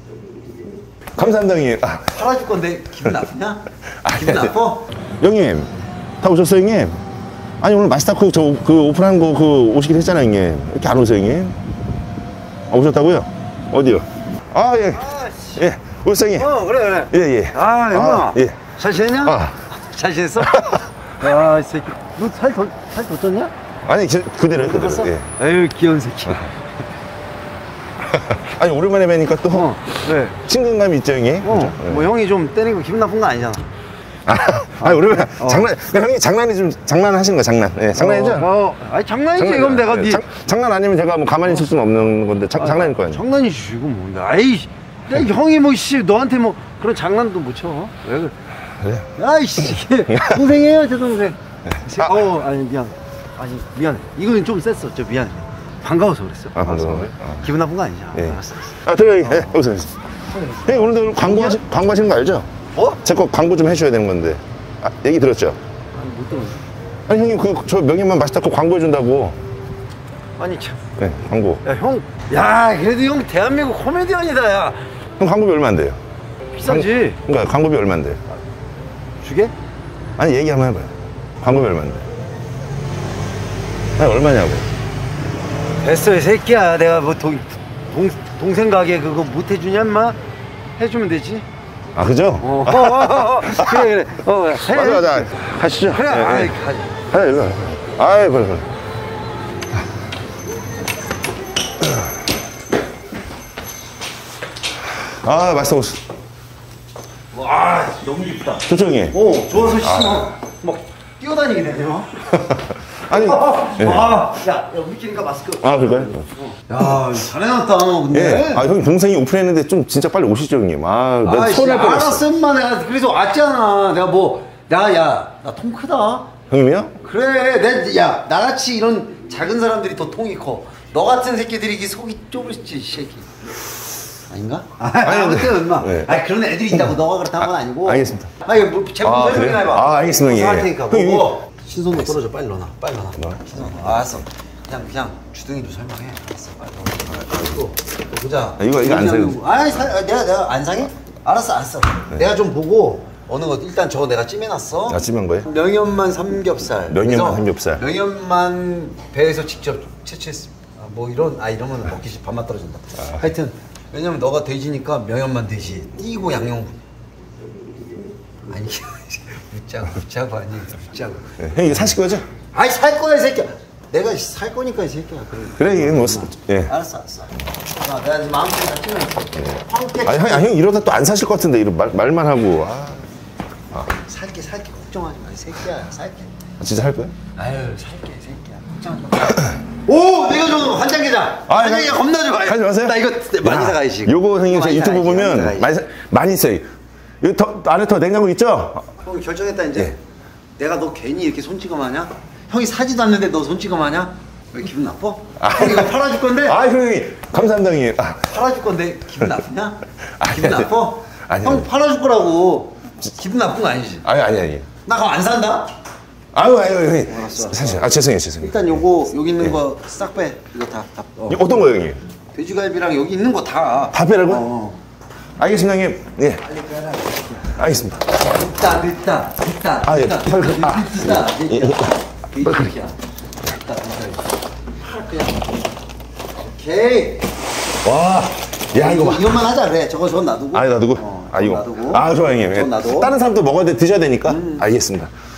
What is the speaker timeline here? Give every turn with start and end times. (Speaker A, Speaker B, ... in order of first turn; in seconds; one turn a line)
Speaker A: 1.1-2.2
Speaker B: 2.1-4.9
Speaker A: 4.0-4.6
Speaker A: 5.2-7.0
Speaker A: 7.6-11.6
Speaker A: 12.7-16.5
Speaker B: 15.0-15.6
Speaker B: 16.4-23.5
Speaker A: 17.1-18.6
Speaker A: 19.2-19.6
Speaker A: 20.4-20.9
Speaker A: 23.8-25.3
Speaker B: 24.5-26.6
Speaker A: 28.0-29.8
Speaker B: 29.5-30.4
Speaker A: 30.4-32.1
Speaker B: 31.4-33.7
Speaker A: 34.3-38.5
Speaker B: 34.7-35.7
Speaker B: 37.9-40.2
Speaker A: 39.4-43.2
Speaker B: 42.6-48.4
Speaker A: 48.8-49.1
Speaker B: 49.1-59.6
Speaker A: 51.9-52.2
Speaker A: 56.5-57.5
Speaker A: 58.1-60.0
Speaker B: 60.3-61.6
Speaker A: 60.6-62.5
Speaker B: 62.7-63.0
Speaker A: 63.0-65.6
Speaker B: 65.9-66.6
Speaker A: 67.1-69.4
Speaker B: 70.4-70.8
Speaker A: 71.0-71.6
Speaker B: 71.7-74.9
Speaker A: 75.2-76.0
Speaker B: 76.5-77.2
Speaker A: 76.6-78.2
Speaker B: 79.2-79.5
Speaker A: 80.2-82.1
Speaker A: 84.0-84.7
Speaker B: 85.8-90.2
Speaker B: 90.8-91.5
Speaker A: 92.0-93.9
Speaker B: 92.4-97.0
Speaker A: 94.6-96.5
Speaker A: 97.1-98.7
Speaker A: 105.0-106.0
Speaker B: 107.3-112.2
Speaker A: 108.7-110.3
Speaker A: 112.3-114.2
Speaker B: 113.1-118.7
Speaker A: 115.6-116.2
Speaker A: 118.1-122.2
Speaker B: 121.2-126.3
Speaker A: 126.5-127.0
Speaker B: 127.0-133.3
Speaker B: 134.3-166.8
Speaker A: 135.0-136.1
Speaker A: 137.4-138.3
Speaker A: 139.0-141.4
Speaker A: 148.6-149.4
Speaker A: 154.9-155.5
Speaker A: 156.9-157.8
Speaker B: 168.4-171.5
Speaker A: 171.4-172.3
Speaker B: 172.5-180.5
Speaker A: 175.6-176.7
Speaker A: 179.4-183.1
Speaker B: 183.9-186.3
Speaker A: 186.6-187.2
Speaker B: 187.3-195.7
Speaker A: 191.5-196.7
Speaker A: 197.2-198.9
Speaker B: 199.0-200.0
Speaker B: 200.6-206.6
Speaker A: 205.4-208.3
Speaker B: 208.3-214.1
Speaker A: 210.2-210.7
Speaker A: 211.3-211.7
Speaker A: 214.1-214.7
Speaker B: 214.8-215.7
Speaker A: 216.3-218.8
Speaker B: 217.1-221.7
Speaker A: 221.3-222.0
Speaker B: 222.3-224.8
Speaker A: 223.9-224.5
Speaker A: 225.4-226.4
Speaker B: 226.4-235.6
Speaker A: 227.5-228.0
Speaker A: 229.8-232.8
Speaker B: 236.4-237.3
Speaker A: 237.8-239.4
Speaker B: 238.7-243.2
Speaker A: 240.5-245.1
Speaker B: 244.3-244.7